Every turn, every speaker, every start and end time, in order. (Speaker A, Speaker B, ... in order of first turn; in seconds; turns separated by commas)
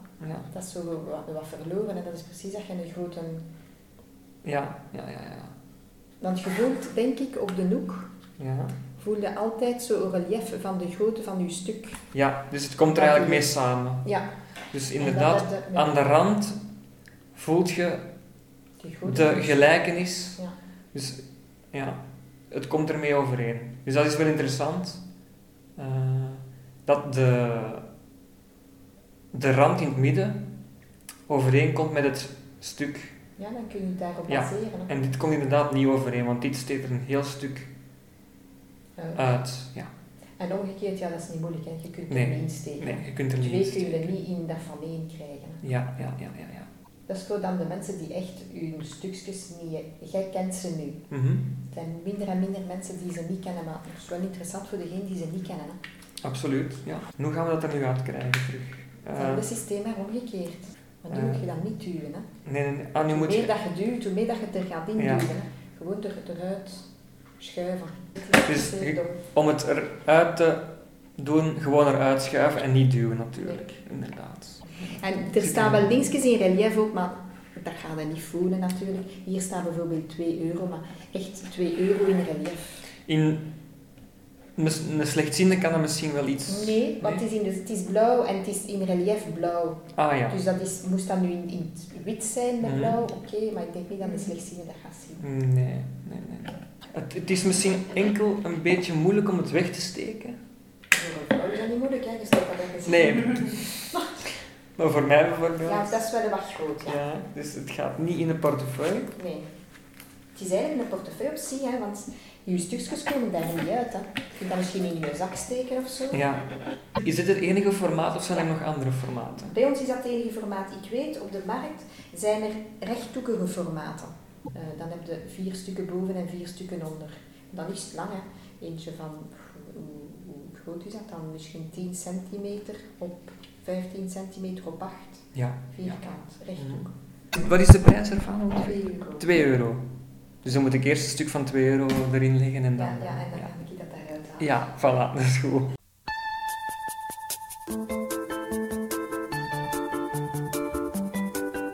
Speaker A: 0.2-0.5, Speaker B: 0.5-3.4, Speaker A: 4.4-5.5, Speaker B: 6.2-8.1, Speaker A: 8.4-8.7, Speaker B: 9.0-12.0, Speaker A: 12.1-14.1, Speaker B: 12.9-14.3, Speaker A: 14.7-16.6, Speaker B: 15.0-16.1, Speaker A: 17.4-18.1, Speaker B: 18.8-20.6, Speaker A: 19.1-20.4, Speaker A: 20.9-25.0, Speaker A: 25.8-27.9, Speaker A: 29.3-30.4, Speaker A: 31.3-33.1, Speaker B: 33.4-34.9, Speaker A: 34.3-37.7, Speaker B: 39.0-39.4, Speaker A: 39.1-39.9, Speaker B: 40.4-45.6, Speaker A: 42.1-44.1, Speaker A: 45.6-46.7, Speaker B: 47.1-51.0, Speaker A: 51.1-51.5, Speaker B: 51.7-55.8, Speaker A: 56.2-59.5, Speaker B: 59.1-62.3, Speaker A: 61.1-61.4, Speaker A: 62.5-63.5, Speaker B: 63.0-66.8, Speaker A: 65.0-65.3, Speaker B: 67.4-69.2, Speaker A: 68.4-75.9, Speaker B: 74.9-82.8, Speaker A: 83.1-83.5, Speaker A: 84.6-87.2, Speaker B: 86.5-95.2, Speaker A: 90.0-90.4, Speaker A: 92.6-93.0, Speaker A: 95.2-100.3, Speaker B: 100.9-104.1, Speaker A: 102.9-103.7, Speaker A: 104.8-105.9, Speaker B: 105.6-107.0, Speaker A: 106.9-109.1, Speaker B: 109.1-109.5, Speaker B: 110.3-116.2, Speaker A: 116.1-116.5, Speaker A: 117.0-119.5, Speaker B: 119.5-136.9, Speaker A: 135.3-139.9, Speaker B: 138.6-139.3, Speaker A: 140.4-143.5, Speaker B: 142.8-144.5, Speaker A: 144.4-145.8